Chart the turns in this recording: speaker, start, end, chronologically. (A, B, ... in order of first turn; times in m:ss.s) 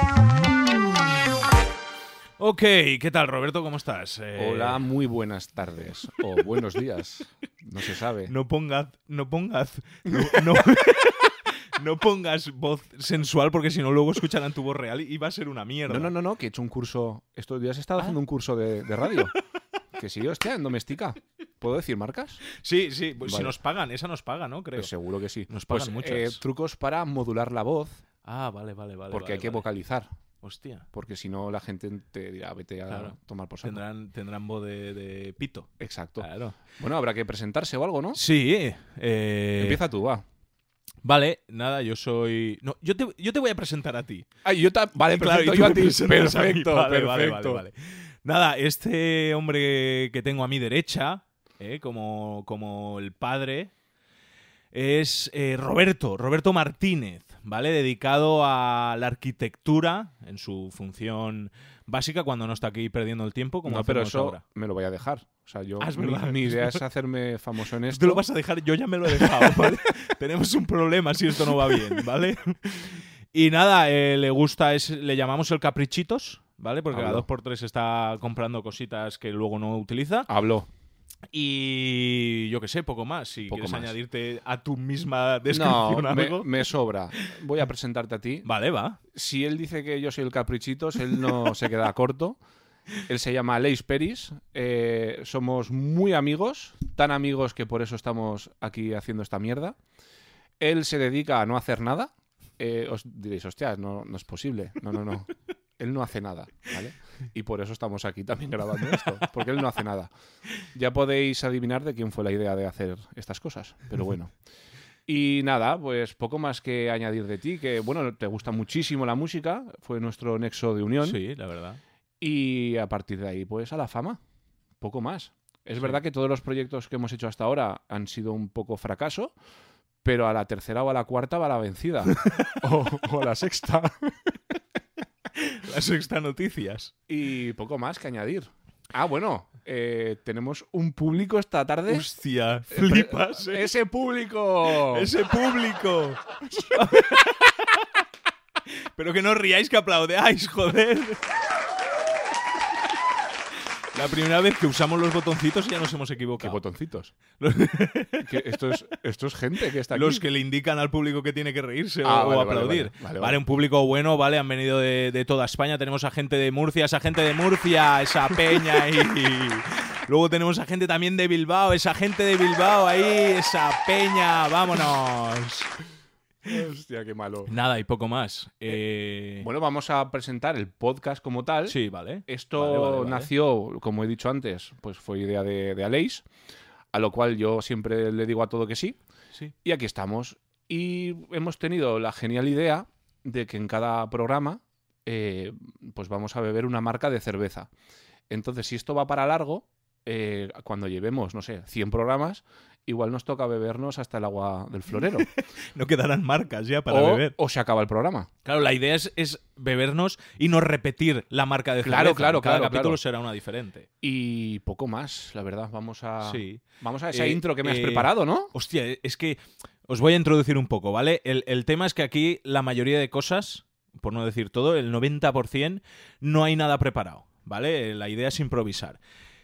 0:02.4-0:04.8 A
0:04.4-0:08.3 B
0:08.3-0:16.1 A
0:15.9-0:19.3 B
0:20.0-0:22.4 B
0:22.5-0:24.9 A
0:23.2-0:23.5 B
0:24.8-0:28.0 B
0:25.5-0:26.4 A
0:28.2-0:29.7 A
0:29.1-0:30.1 B
0:30.4-0:30.9 A
0:30.9-0:33.8 B
0:32.9-0:36.6 A
0:35.8-0:38.2 B
0:38.2-0:39.8 A
0:39.6-0:40.3 B
0:41.0-0:44.3 A
0:44.4-0:47.6 B
0:45.1-0:53.7 A
0:54.7-1:04.4 A
1:03.7-1:08.2 B
1:05.8-1:06.8 A
1:07.9-1:20.3 A
1:09.2-1:09.8 B
1:16.9-1:17.3 B
1:20.3-1:20.7 B
1:21.3-1:26.5 A
1:23.5-1:24.0 B
1:25.5-1:28.5 B
1:28.4-1:29.0 A
1:29.1-1:32.4 B
1:33.1-1:39.8 B
1:40.6-1:50.1 B
1:50.7-1:54.3 B
1:55.1-2:01.2 B
2:01.0-2:01.8 A
2:02.2-2:04.2 B
2:04.8-2:09.3 B
2:10.0-2:14.3 B
2:12.2-2:12.6 A
2:15.3-2:16.9 A
2:17.1-2:22.1 B
2:21.9-2:23.7 A
2:22.7-2:25.1 B
2:24.8-2:27.7 A
2:29.0-2:31.2 A
2:33.9-2:36.6 A
2:36.4-2:37.1 B
2:37.4-2:38.6 A
2:38.2-2:40.2 B
2:39.9-2:55.7 A
2:42.0-2:43.4 B
2:56.4-2:57.5 B
2:57.5-2:59.5 A
2:59.4-3:06.3 B
3:01.7-3:03.3 A
3:06.9-3:09.0 B
3:09.6-3:17.7 B
3:18.3-3:25.3 B
3:25.2-3:27.4 A
3:26.9-3:28.3 B
3:28.4-3:33.9 A
3:31.8-3:33.0 B
3:34.0-3:38.5 B
3:36.2-3:49.0 A